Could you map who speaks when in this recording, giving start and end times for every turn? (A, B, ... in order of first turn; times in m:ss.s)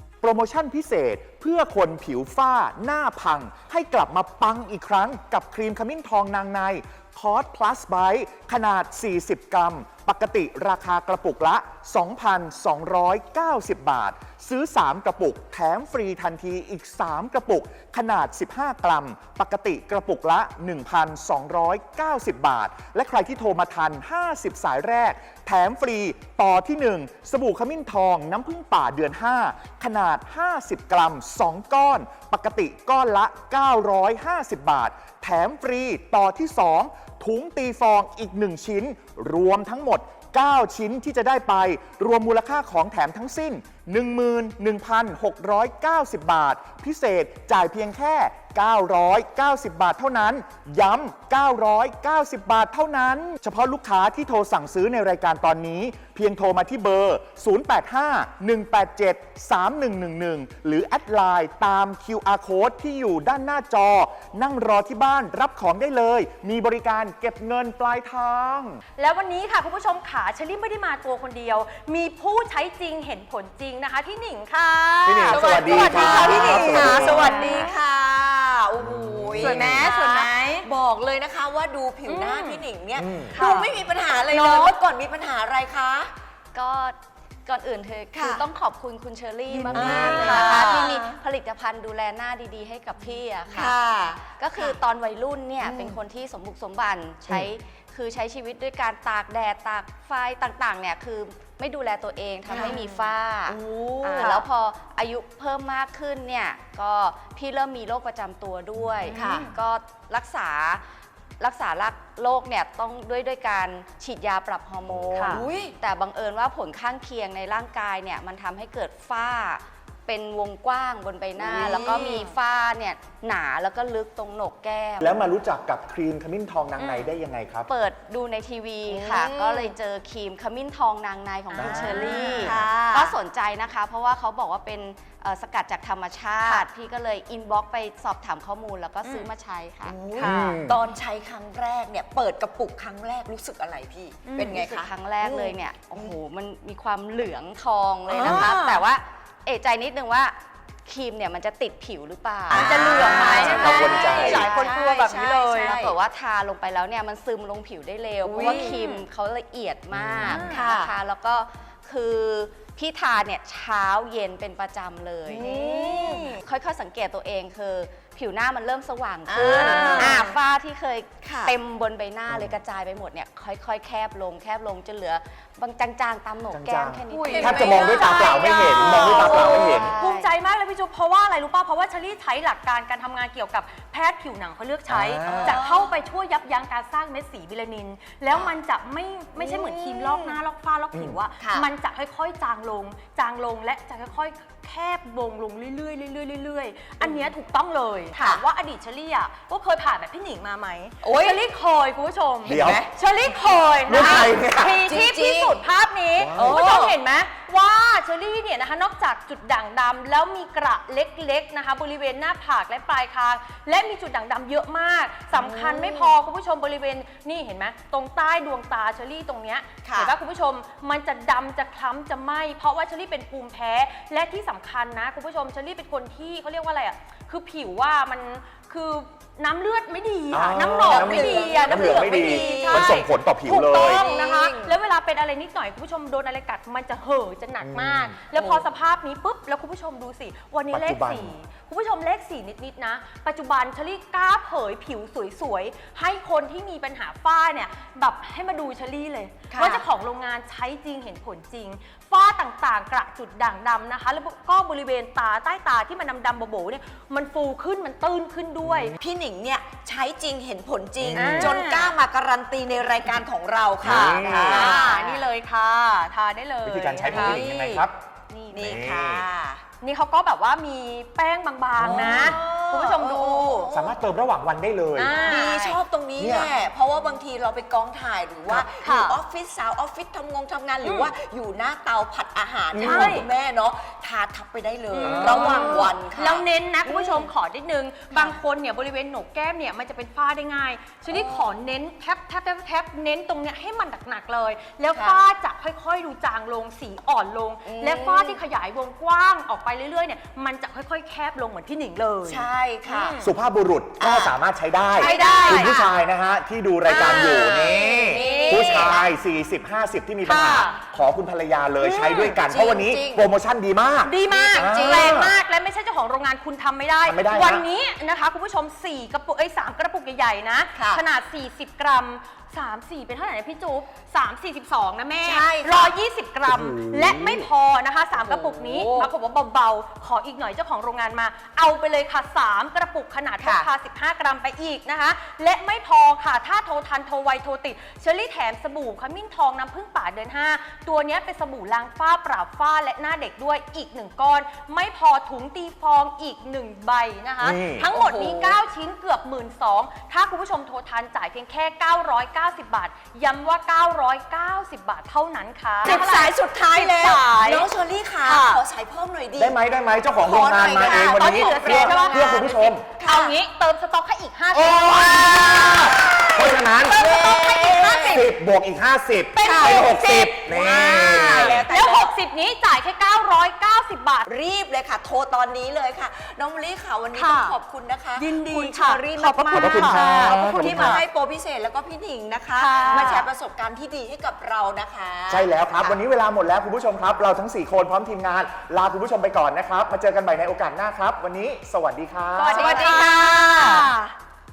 0:00.2-1:08.8 A
1:09.0-1:17.7 B
1:15.0-1:17.5 A
1:15.3-1:26.1 C
1:18.8-1:19.9 A
1:19.4-1:20.7 B
1:22.0-1:22.6 B
1:23.0-1:23.4 A
1:23.3-1:24.8 B
1:26.5-1:33.8 D
1:28.1-1:28.4 C
1:29.5-1:30.9 B
1:29.7-1:31.2 C
1:29.7-1:30.4 A
1:33.5-1:34.8 C
1:34.3-1:50.8 D
1:35.6-1:36.0 C
1:42.5-1:44.4 C
1:42.5-1:42.9 B
1:49.1-1:49.5 B
1:49.1-1:49.5 C
1:51.4-2:05.2 D
1:55.1-1:55.4 B
1:55.3-1:55.7 C
2:01.4-2:02.3 C
2:05.0-2:07.7 A
2:06.8-2:07.0 C
2:07.7-2:20.0 D
2:08.9-2:09.7 C
2:11.5-2:12.0 A
2:11.5-2:13.2 C
2:11.8-2:12.6 B
2:19.8-2:26.1 C
2:20.2-2:20.6 B
2:20.2-2:20.8 A
2:24.2-2:24.6 B
2:24.4-2:34.4 D
2:28.1-2:28.8 C
2:32.5-2:35.9 C
2:32.5-2:35.8 B
2:33.0-2:34.5 A
2:35.6-3:00.2 D
2:38.2-2:38.8 C
2:38.4-2:39.0 B
2:39.9-2:40.4 A
2:40.2-2:40.6 B
2:40.5-2:40.9 C
2:45.2-2:46.4 C
2:45.5-2:46.2 B
2:49.3-2:50.4 C
2:49.4-2:50.0 A
2:49.6-2:50.2 B
2:51.2-2:51.5 C
2:56.5-2:59.9 A
2:57.1-4:18.9 B
2:57.2-3:00.1 C
3:04.9-3:05.6 A
3:05.2-3:05.9 C
3:09.4-3:10.4 C
3:10.9-3:11.2 A
3:11.4-3:11.7 C
3:17.0-3:17.3 C
3:18.1-3:18.4 C
3:21.0-3:21.4 C
3:22.4-3:22.9 C
3:22.5-3:22.8 A
3:23.8-3:24.8 A
3:23.9-3:25.6 C
3:26.2-3:26.6 A
3:26.3-3:26.9 C
3:35.3-3:36.1 C
3:39.8-3:40.1 C
3:50.3-3:54.0 A
3:50.6-3:54.7 C
3:57.6-3:58.2 A
3:58.3-3:58.6 C
4:00.7-4:01.3 A
4:09.5-4:09.8 C
4:18.7-4:18.9 A
4:19.0-4:25.2 C
4:21.0-4:21.6 A
4:21.2-4:21.9 B
4:23.8-4:24.8 A
4:23.8-4:27.4 B
4:26.6-4:27.9 A
4:27.1-4:27.8 C
4:28.3-4:28.8 B
4:28.5-4:29.6 C
4:28.5-4:29.2 A
4:29.8-4:33.7 B
4:31.8-4:34.0 C
4:31.8-4:32.3 A
4:33.7-4:35.3 A
4:35.0-4:35.8 B
4:35.1-4:47.3 C
4:36.2-4:36.5 A
4:38.8-4:39.2 B
4:40.8-4:41.1 B
4:42.7-4:43.1 A
4:42.8-4:43.3 B
4:44.9-5:03.3 B
4:45.0-4:45.9 A
4:48.1-4:48.4 C
4:51.1-4:51.5 C
4:54.9-4:55.2 C
4:57.6-4:58.4 C
5:02.2-5:03.2 C
5:03.2-5:15.3 A
5:04.0-5:04.3 C
5:05.0-5:05.9 C
5:05.0-5:05.8 B
5:06.9-5:09.0 B
5:06.9-5:09.1 C
5:10.2-5:10.8 B
5:11.8-5:13.3 C
5:12.0-5:12.4 B
5:14.0-5:57.7 B
5:14.3-5:15.3 C
5:17.0-5:17.6 A
5:20.7-5:21.0 C
5:25.2-5:25.9 C
5:26.5-5:27.4 A
5:28.2-5:29.1 C
5:33.4-5:33.7 C
5:47.4-5:47.9 A
5:47.9-5:48.6 C
5:55.8-5:59.6 C
5:58.2-5:58.6 B
5:59.4-6:02.8 A
6:00.2-6:03.4 C
6:00.8-6:05.7 B
6:04.5-6:11.6 A
6:04.8-6:08.3 C
6:06.9-6:08.2 B
6:09.4-6:12.1 C
6:09.4-6:14.3 B
6:14.2-6:26.0 C
6:17.1-6:17.6 B
6:18.2-6:21.0 B
6:19.5-6:21.0 A
6:22.6-6:23.3 B
6:25.3-6:33.0 A
6:32.3-6:34.1 B
6:32.5-6:33.9 C